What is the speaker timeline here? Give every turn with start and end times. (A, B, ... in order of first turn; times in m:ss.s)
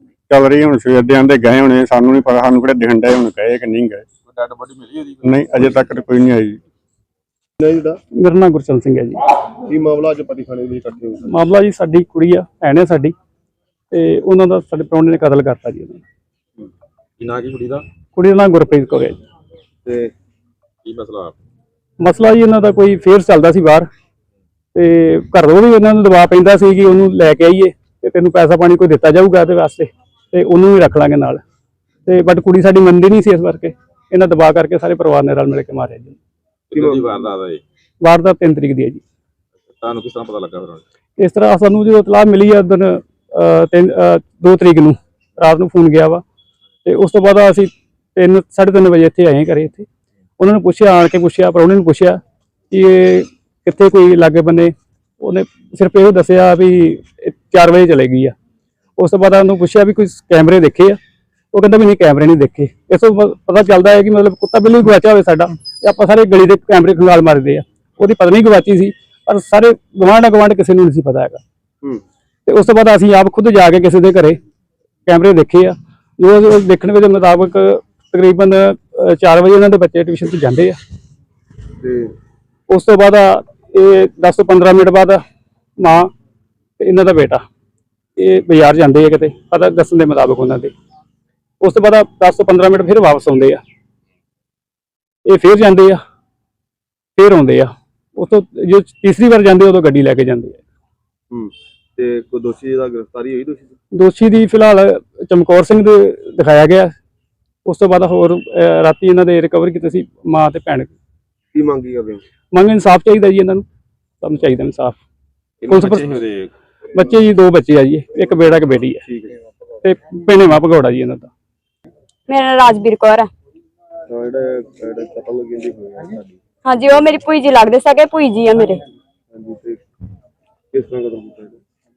0:00.3-0:04.0 A
0:04.3-0:05.9 B
0:05.2-0:06.6 A
0:07.6-0:08.0 C
0:08.2-0:09.2 D
0:09.7-0:11.3 C
0:11.3-0:13.2 D
0:13.9-0:16.0 D
0:17.2-0:17.9 B
0:18.1-0:19.2 D
0:19.8-0:20.1 C
0:20.8-0:21.4 B
0:22.0-0:23.9 D
0:24.7-0:31.4 D
0:32.1-0:36.2 D
0:36.7-0:37.6 B
0:36.7-0:37.2 C
0:38.0-0:39.0 D
0:39.7-0:40.8 B
0:41.2-0:46.2 D
0:46.8-0:49.9 D
0:50.4-0:52.2 D
0:52.7-0:58.4 D
0:59.0-1:01.0 D
1:01.5-1:11.4 D
1:12.5-1:14.4 D
1:15.1-1:20.8 D
1:21.8-1:22.1 C
1:22.7-1:25.2 D
1:25.8-1:26.1 D
1:26.8-1:27.4 D
1:28.2-1:30.7 D
1:31.6-1:33.6 D
1:35.2-1:36.0 D
1:37.2-1:40.6 D
1:41.3-1:43.8 C
1:43.9-1:46.9 D
1:47.6-1:50.9 D
1:51.5-1:52.2 C
1:52.5-1:53.6 D
1:54.2-1:55.0 D
1:55.6-1:56.5 B
1:55.7-1:56.1 D
1:56.9-1:59.0 D
1:59.0-1:59.3 C
1:59.8-2:01.3 D
2:02.3-2:03.3 E
2:04.1-2:06.4 C
2:06.7-2:08.8 E
2:09.3-2:09.8 C
2:10.7-2:11.6 C